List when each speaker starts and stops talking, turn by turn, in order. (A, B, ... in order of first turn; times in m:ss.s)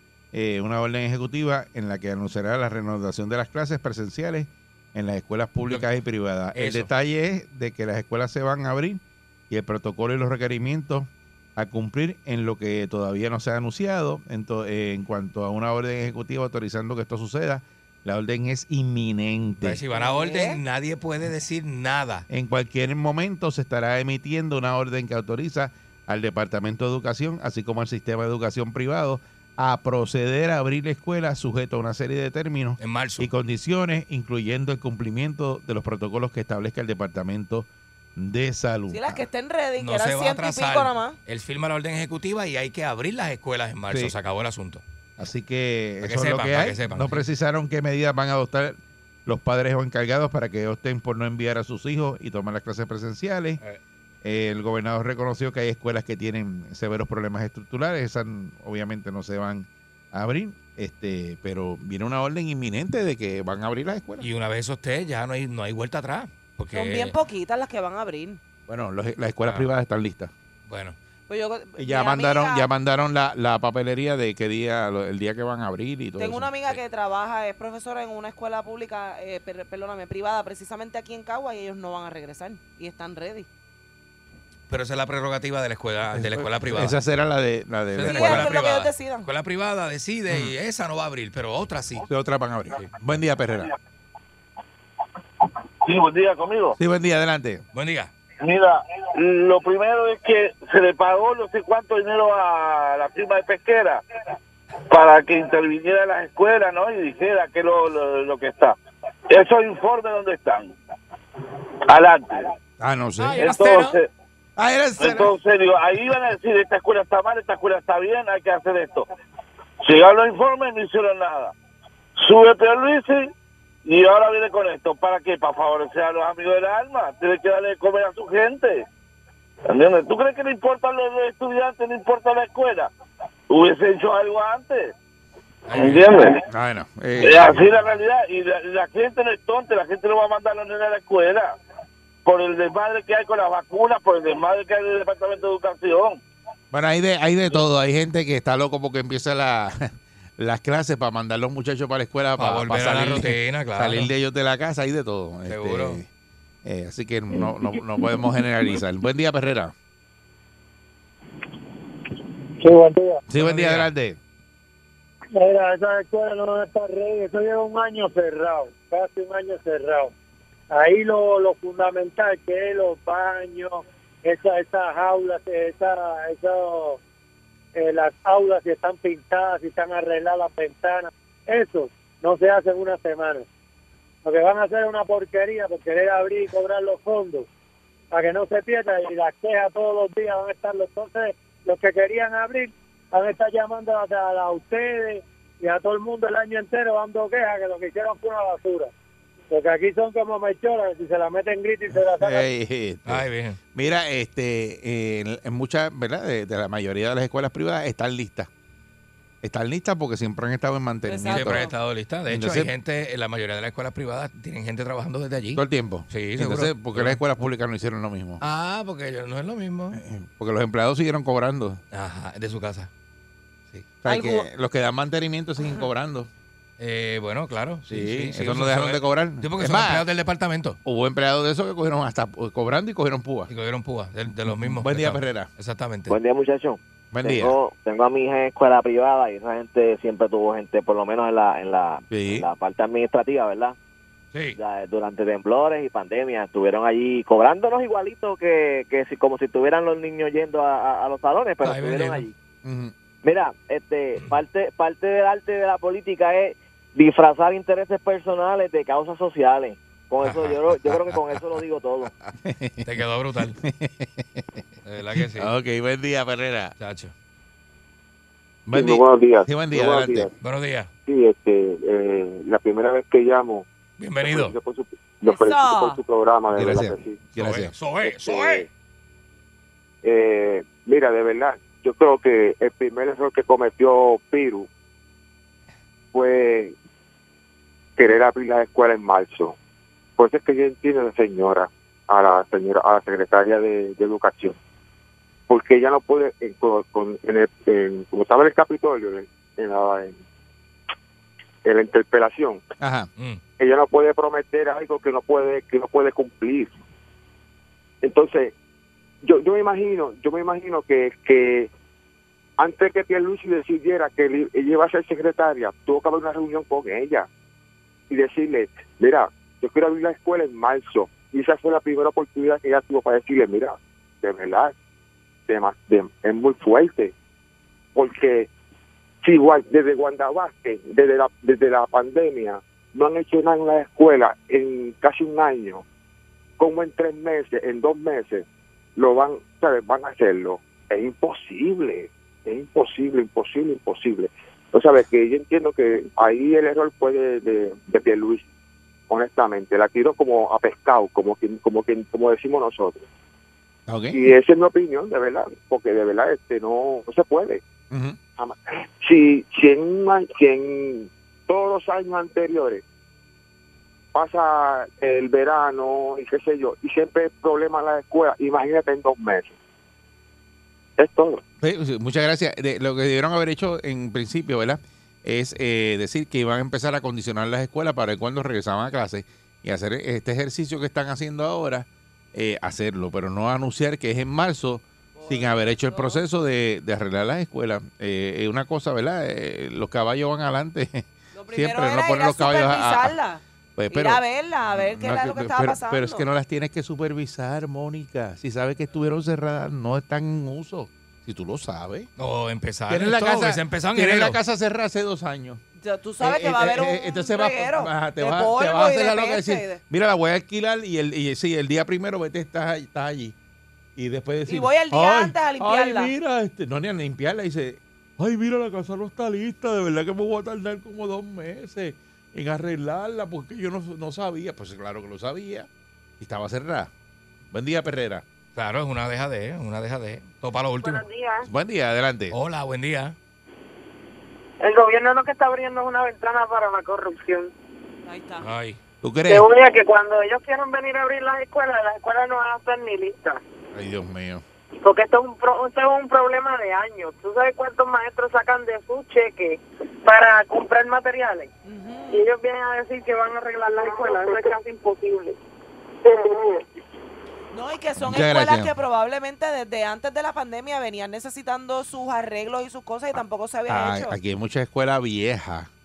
0:00.3-0:19.8 A
0:06.5-0:06.9 B
0:19.6-0:22.2 B
0:19.9-0:20.6 C
0:22.3-0:39.2 A
0:32.8-0:33.3 B
0:38.9-0:41.2 C
0:39.8-0:44.8 B
0:45.2-0:53.6 A
0:46.0-0:47.2 B
0:54.2-1:04.3 A
1:04.2-1:07.1 B
1:06.7-1:08.4 C
1:08.7-1:10.3 A
1:10.7-1:11.0 B
1:11.3-1:12.7 C
1:11.8-1:16.5 A
1:16.2-1:23.5 C
1:24.7-1:27.0 B
1:26.1-1:28.5 A
1:27.9-1:32.0 B
1:28.1-1:29.3 C
1:30.3-1:30.5 A
1:32.1-1:33.7 A
1:35.8-1:36.8 D
1:36.8-1:37.6 A
1:37.7-1:38.1 B
1:38.4-1:44.0 D
1:44.9-1:48.8 D
1:49.3-1:50.7 D
1:51.9-1:52.5 D
1:52.8-1:53.6 A
1:53.2-1:53.9 B
1:53.4-1:54.1 D
1:54.6-1:55.3 A
1:55.0-1:59.1 D
1:59.8-2:01.5 D
2:02.2-2:03.3 D
2:03.8-2:08.8 D
2:09.7-2:12.9 D
2:13.5-2:14.9 D
2:15.7-2:16.1 B
2:15.8-2:16.4 D
2:16.5-2:17.7 A
2:17.2-2:21.5 D
2:22.2-2:26.2 D
2:26.7-2:36.1 A
2:32.4-2:34.1 B
2:35.5-2:36.0 B
2:36.6-2:39.7 A
2:42.6-2:43.2 E
2:43.3-2:44.2 A
2:43.4-2:43.9 B
2:45.3-2:50.1 E
2:50.7-2:57.0 E
2:57.7-3:03.4 E
3:04.2-3:07.4 E
3:08.1-3:18.9 E
3:19.5-3:22.4 E
3:22.1-3:28.5 A
3:23.0-3:23.6 B
3:29.4-3:31.7 A
3:31.1-3:31.7 C
3:31.3-3:37.2 B
3:32.3-3:32.7 A
3:35.5-3:38.4 A
3:38.4-3:40.0 B
3:39.9-3:41.8 A
3:41.9-3:42.9 B
3:44.0-3:46.3 A
3:44.0-3:44.4 C
3:46.8-3:50.8 B
3:47.9-3:50.0 A
3:50.8-3:53.5 A
3:53.5-3:56.2 B
3:54.5-3:55.5 A
3:56.1-4:03.7 F
3:57.1-3:57.6 A
4:02.1-4:02.5 A
4:04.3-4:04.6 B
4:04.6-4:12.3 F
4:11.6-4:12.2 B
4:12.6-4:12.9 A
4:13.2-4:22.1 F
4:20.2-4:21.4 B
4:22.3-4:22.9 A
4:22.8-4:23.6 B
4:23.5-4:24.6 A
4:24.8-4:25.5 B
4:25.2-4:26.7 A
4:26.8-4:27.1 B
4:28.6-4:30.3 A
4:28.7-4:30.3 G
4:30.4-4:30.9 B
4:31.1-4:33.6 G
4:34.0-4:34.6 B
4:34.2-4:37.2 G
4:35.2-4:36.0 C
4:36.5-4:37.7 A
4:37.4-4:38.6 B
4:38.0-4:38.7 G
4:40.0-4:44.7 G
4:46.1-4:46.8 G
4:48.0-4:49.6 G
4:50.2-4:54.6 G
4:55.5-5:00.2 G
5:01.6-5:02.6 G
5:02.8-5:03.1 A
5:03.6-5:06.8 G
5:08.0-5:08.5 G
5:09.2-5:11.7 G
5:12.6-5:17.3 G
5:18.1-5:24.7 G
5:25.5-5:27.1 G
5:27.9-5:28.5 G
5:29.2-5:35.8 G
5:36.6-5:48.4 G
5:49.1-5:53.0 G
5:53.9-5:54.3 A
5:54.1-5:57.6 G
5:57.9-5:58.2 A
5:58.4-6:02.8 G
6:04.1-6:09.6 G
6:11.0-6:11.4 G
6:11.6-6:33.1 A
6:25.2-6:26.2 C
6:31.3-6:36.2 C
6:33.8-6:42.1 A
6:42.2-6:44.4 B
6:42.9-6:45.6 A
6:45.8-6:49.8 C
6:46.2-6:53.3 A
6:54.0-7:05.7 A
6:54.5-6:56.1 C
7:06.2-7:06.9 A
7:07.5-7:08.2 A
7:08.5-7:11.0 B
7:10.8-7:11.5 H
7:11.4-7:12.3 A
7:12.3-7:13.1 B
7:14.6-7:17.5 H
7:18.0-7:18.4 C
7:18.4-7:18.8 B
7:19.0-7:19.5 A
7:19.2-7:23.4 H
7:23.7-7:24.4 A
7:24.8-7:31.5 H
7:31.6-7:32.2 C
7:32.1-7:35.4 H
7:36.0-7:36.6 H
7:37.5-7:44.2 C
7:38.0-7:38.7 A
7:43.7-7:45.7 A